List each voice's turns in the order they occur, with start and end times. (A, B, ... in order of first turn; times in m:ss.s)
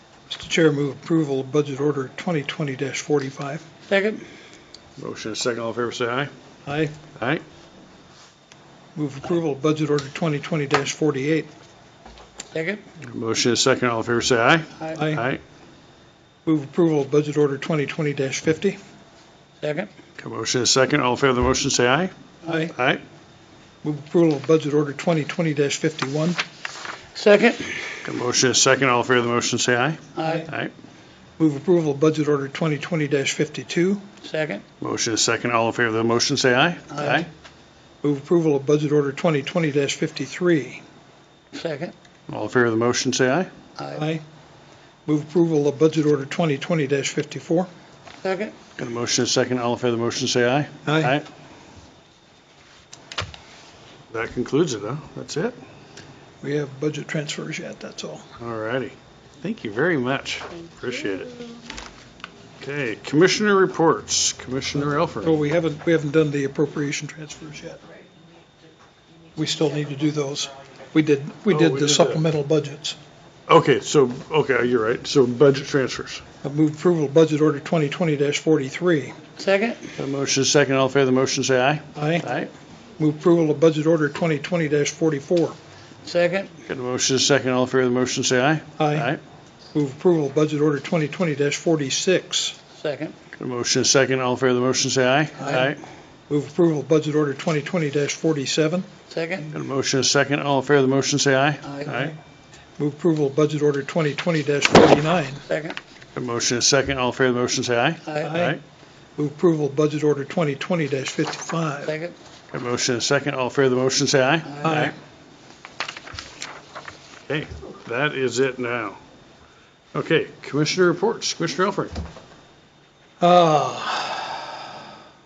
0:00.3-0:03.6 A
0:03.9-0:04.2 B
0:05.0-0:06.3 C
0:06.6-0:07.0 A
0:07.2-0:07.4 C
0:09.0-0:11.5 A
0:12.5-0:12.8 B
0:13.0-0:15.4 C
0:15.0-0:15.3 A
0:16.5-0:18.8 A
0:19.6-0:19.9 B
0:20.2-0:22.1 C
0:22.4-0:22.7 A
0:22.7-0:23.0 C
0:23.8-0:26.4 A
0:27.2-0:27.8 B
0:28.0-0:30.7 C
0:30.2-0:30.5 B
0:30.2-0:30.5 A
0:31.4-0:34.0 A
0:34.2-0:34.6 B
0:34.8-0:37.3 C
0:38.0-0:40.8 A
0:41.5-0:42.0 B
0:42.3-0:43.5 C
0:43.8-0:44.0 B
0:43.9-0:44.2 A
0:45.1-0:47.7 A
0:48.2-0:48.6 B
0:48.8-0:51.3 C
0:50.9-0:51.2 A
0:54.1-0:55.6 C
0:56.4-0:58.3 A
0:58.4-1:01.4 C
1:02.6-1:05.4 C
1:05.2-1:07.8 A
1:09.4-1:13.0 A
1:11.5-1:12.3 C
1:13.5-1:16.2 C
1:16.4-1:19.2 A
1:19.4-1:19.9 B
1:20.0-1:22.5 C
1:22.0-1:22.4 A
1:23.0-1:25.6 A
1:26.0-1:26.5 B
1:26.7-1:29.2 C
1:28.8-1:29.1 A
1:29.7-1:32.6 A
1:32.8-1:33.2 B
1:33.4-1:35.8 C
1:36.3-1:38.9 A
1:39.1-1:39.5 B
1:39.5-1:42.1 C
1:41.6-1:42.0 B
1:41.9-1:42.2 A
1:42.8-1:45.5 A
1:45.5-1:45.8 B
1:46.2-1:48.6 C
1:48.2-1:48.6 A
1:49.2-1:52.0 A
1:51.9-1:52.2 B
1:52.5-1:55.0 C
1:54.6-1:55.0 A
1:57.3-1:59.0 C
1:59.9-2:02.0 C
2:03.2-2:04.6 A